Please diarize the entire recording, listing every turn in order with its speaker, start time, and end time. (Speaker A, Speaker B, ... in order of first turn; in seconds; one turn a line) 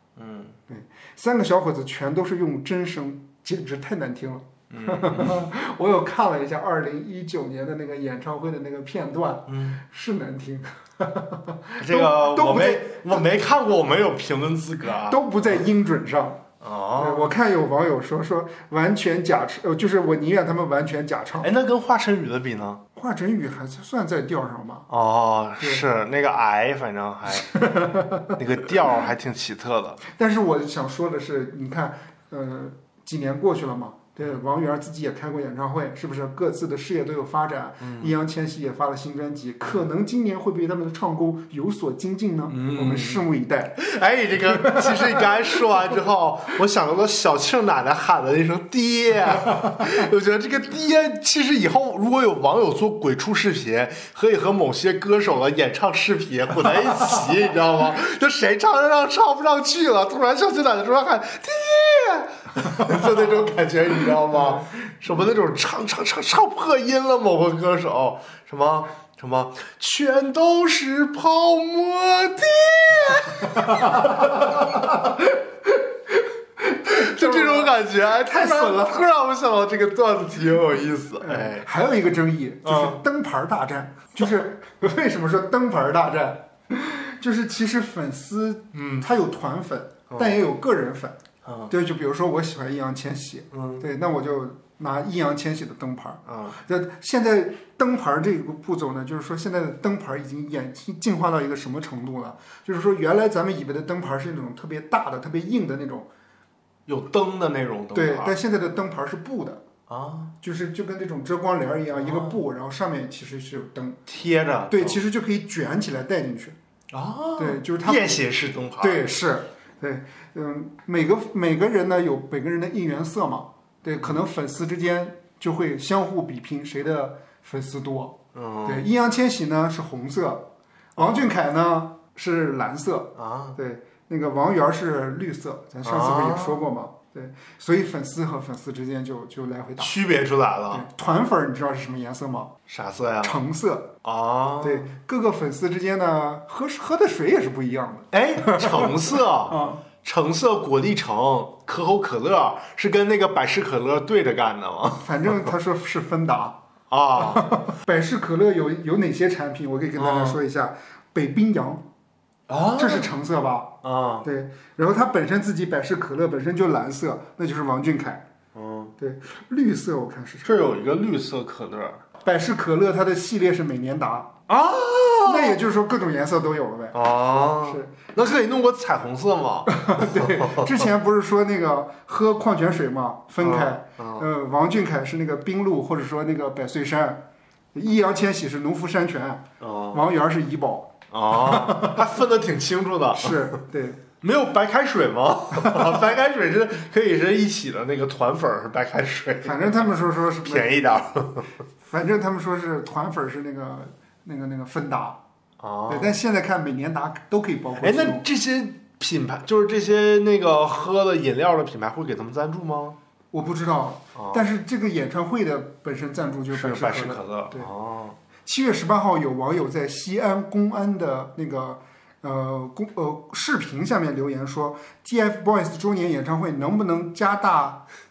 Speaker A: 0.2-0.6
Speaker B: 0.7-13.3
Speaker A: 4.7-5.5
Speaker A: 9.5-9.8
Speaker A: 11.8-15.5
Speaker B: 15.0-16.4
Speaker A: 16.6-17.4
Speaker B: 17.0-21.5
Speaker A: 21.4-22.8
Speaker B: 22.9-24.9
Speaker A: 24.9-27.7
Speaker B: 25.6-25.9
Speaker B: 27.3-28.4
Speaker A: 28.3-30.0
Speaker B: 30.1-43.8
Speaker A: 37.8-38.1
Speaker A: 42.5-43.3
Speaker A: 43.8-75.0
Speaker B: 44.5-45.8
Speaker B: 73.4-78.8
Speaker A: 76.8-81.7
Speaker B: 81.2-91.2
Speaker A: 82.6-83.0
Speaker A: 88.7-89.1
Speaker A: 90.1-90.4
Speaker A: 91.4-91.7
Speaker B: 91.7-106.1
Speaker A: 93.5-93.9
Speaker A: 96.3-96.6
Speaker A: 106.9-108.3
Speaker B: 107.9-109.6
Speaker A: 109.9-110.3
Speaker B: 110.4-114.0
Speaker A: 111.9-112.4
Speaker A: 114.1-115.0
Speaker B: 114.7-116.6
Speaker A: 116.9-119.0
Speaker B: 117.4-118.2
Speaker B: 118.8-139.9
Speaker A: 128.3-128.9
Speaker A: 131.0-131.3
Speaker A: 133.2-133.6
Speaker A: 135.8-136.6
Speaker A: 139.8-140.9
Speaker B: 140.7-142.5
Speaker A: 142.7-143.4
Speaker B: 143.2-143.9
Speaker A: 144.0-144.9
Speaker B: 144.6-149.8
Speaker A: 148.1-155.5
Speaker B: 155.0-156.6
Speaker A: 156.9-157.6
Speaker B: 157.2-161.8
Speaker A: 159.9-160.4
Speaker A: 162.5-163.1
Speaker B: 162.8-168.2
Speaker A: 163.8-164.3
Speaker A: 168.5-168.9
Speaker B: 169.0-170.5
Speaker A: 170.4-172.0
Speaker B: 172.2-174.3
Speaker A: 174.5-175.6
Speaker B: 175.2-177.0
Speaker A: 176.9-180.9
Speaker B: 177.6-177.9
Speaker B: 179.7-192.1
Speaker A: 183.4-184.3
Speaker A: 189.6-190.0
Speaker A: 191.1-193.6
Speaker B: 193.1-194.0
Speaker A: 194.2-199.9
Speaker B: 195.6-196.0
Speaker B: 199.4-200.8
Speaker A: 200.4-201.5
Speaker B: 201.9-205.2
Speaker A: 205.6-206.2
Speaker B: 205.9-208.2
Speaker A: 207.8-213.0
Speaker B: 213.3-217.7
Speaker A: 214.1-214.4
Speaker A: 216.5-218.2
Speaker B: 218.4-227.8